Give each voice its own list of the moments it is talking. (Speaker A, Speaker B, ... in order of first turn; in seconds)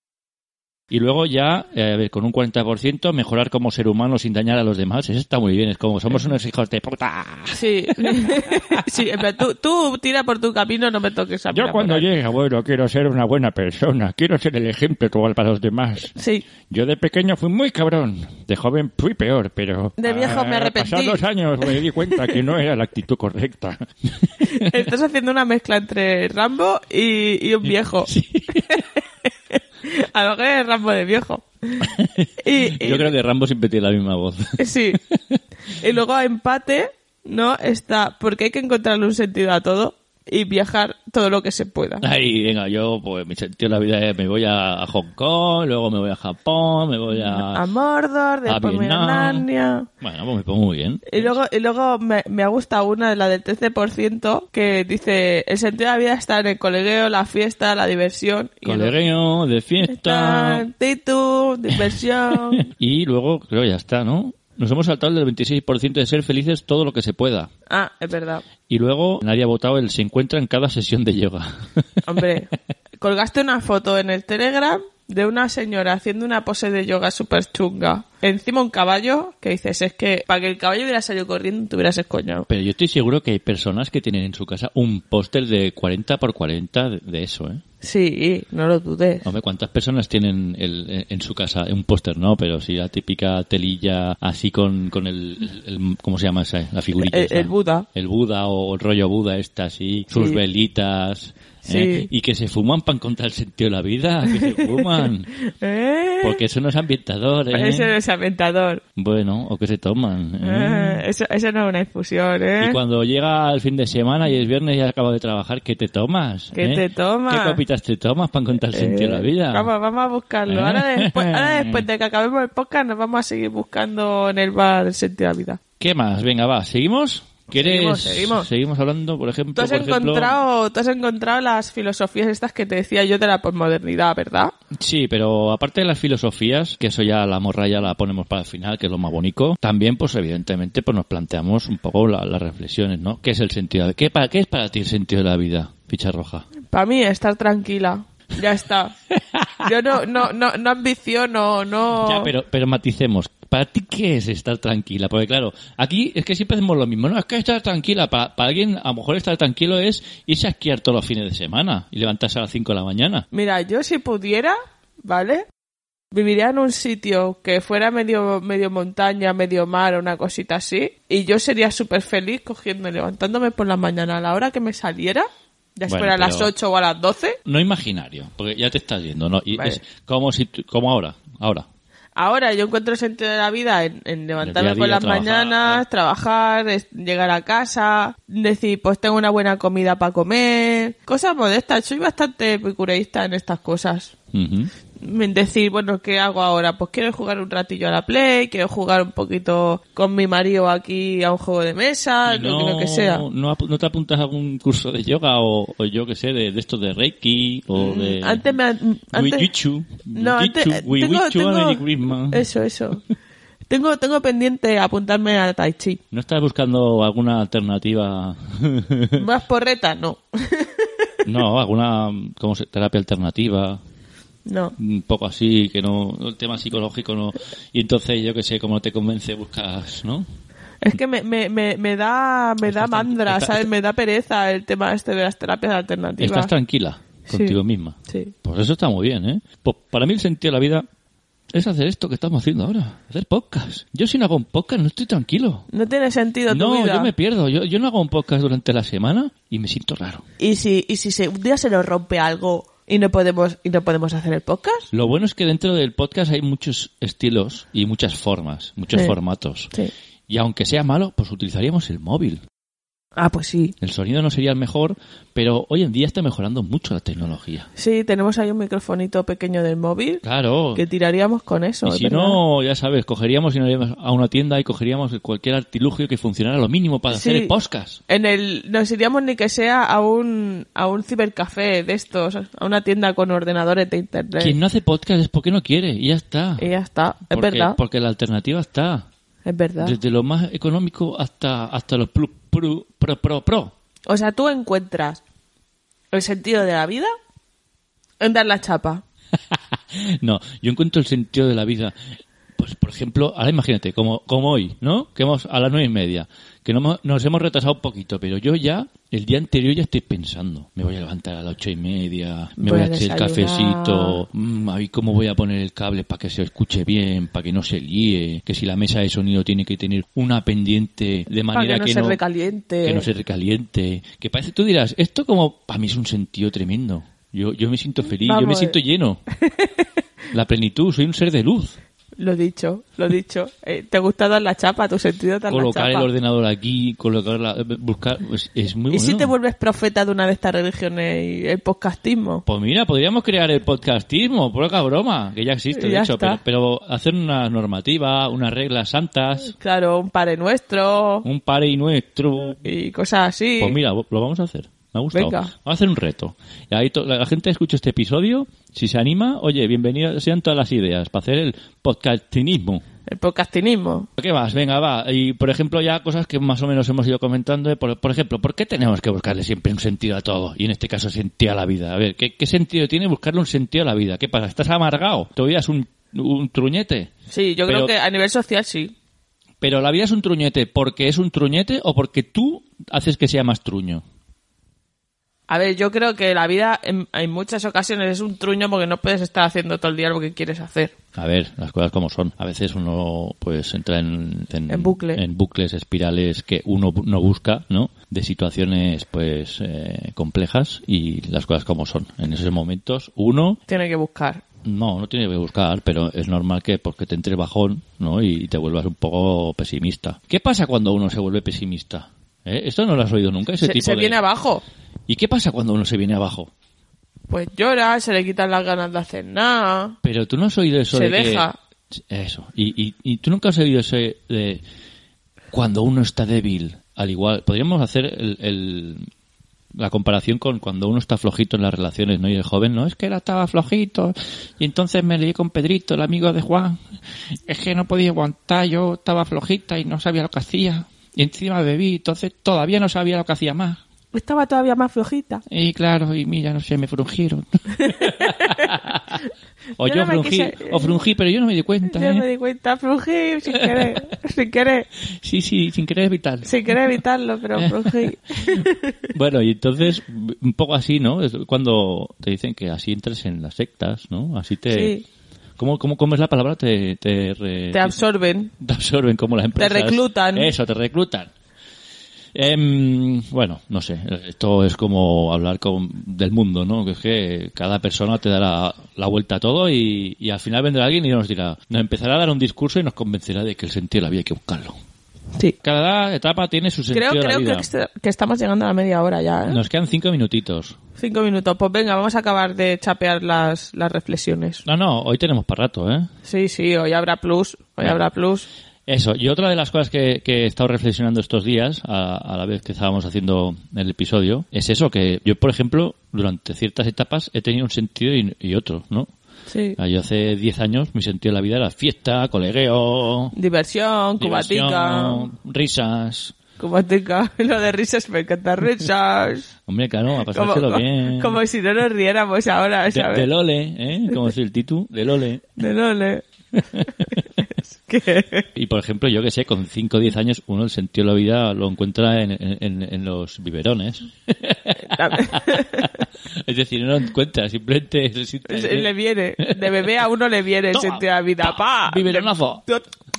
Speaker A: 0.9-9.0, 11.5-16.1, 16.7-24.8, 27.7-28.8, 31.8-35.4, 42.0-47.6, 48.5-49.5, 50.0-51.4, 58.6-60.7, 62.3-67.5, 68.7-71.9, 82.5-87.6, 89.2-105.3, 106.2-107.9, 109.0-111.0, 112.6-119.7, 120.5-121.9, 125.8-130.4, 134.7-146.4, 149.1-149.7, 152.0-163.3, 175.9-176.5, 177.4-181.7, 184.4-185.8, 194.3-194.7, 202.2-208.5, 209.1-212.5, 216.1-219.2, 221.2-223.8, 224.8-230.3, 232.7-233.7, 236.2-240.9, 241.5-245.7, 246.5-250.2, 254.9-259.7, 260.3-262.4, 263.8-267.7, 270.2-270.8, 271.9-278.0, 284.4-286.7, 287.3-289.1, 289.8-293.7, 299.5-302.0, 302.6-322.2, 322.8-329.2, 330.3-331.8, 335.5-339.3, 342.5-349.6, 351.2-352.6, 353.6-362.8, 364.2-377.1, 377.7-377.9, 379.6-384.0, 391.2-403.6, 404.6-414.2, 415.1-416.5, 420.0-424.6, 425.5-429.1, 429.7-436.8, 437.5-443.8, 445.5-449.2, 449.8-452.3, 453.5-454.0, 455.1-457.0, 457.6-464.9, 465.6-468.0, 468.6-471.3, 472.3-484.8, 485.6-487.7, 489.5-490.8, 494.6-496.1, 498.9-509.1, 509.8-513.3, 514.2-516.4, 519.7-521.4, 522.9-525.5, 526.7-527.1, 528.5-539.9, 540.7-542.6
Speaker B: 7.5-12.1, 16.2-16.4, 20.0-21.2, 24.4-28.1, 28.7-29.0, 29.5-33.1, 34.6-35.0, 35.7-42.0, 47.2-49.9, 51.1-59.0, 59.9-62.7, 67.7-68.5, 72.1-82.5, 87.8-89.2, 97.0-97.9, 100.1-100.4, 101.6-102.1, 104.3-104.9, 105.4-106.4, 107.5-108.8, 110.4-112.8, 116.5-117.6, 118.7-125.6, 127.5-128.5, 129.6-134.5, 146.7-148.9, 149.6-152.3, 163.3-165.5, 166.1-177.4, 179.5-179.8, 182.2-194.1, 195.0-203.2, 207.8-209.5, 210.1-213.0, 213.7-216.0, 219.2-221.1, 224.5-224.8, 230.8-236.5, 237.3-237.6, 238.1-238.3, 245.7-247.1, 250.4-254.9, 263.2-263.7, 267.8-270.2, 270.8-272.4, 277.1-277.5, 278.1-284.6, 286.6-287.8, 289.4-290.0, 294.1-295.2, 296.1-297.1, 298.2-299.0, 312.6-314.2, 321.5-323.1, 328.2-328.8, 329.4-329.9, 332.2-336.1, 338.9-342.4, 345.7-346.4, 349.6-351.2, 352.6-353.8, 355.1-355.5, 363.1-364.1, 377.3-378.9, 385.5-390.9, 394.7-395.2, 403.7-404.4, 413.6-414.6, 417.3-420.0, 420.9-421.6, 444.1-445.4, 447.8-448.8, 449.8-451.0, 451.9-454.9, 456.5-459.1, 464.7-465.0, 467.7-468.5, 469.6-470.5, 486.9-489.6, 491.0-494.6, 496.2-498.5, 509.5-509.8, 513.3-515.3, 516.6-519.5, 520.3-523.3, 525.6-526.2, 527.4-528.5, 534.9-535.9, 538.5-542.9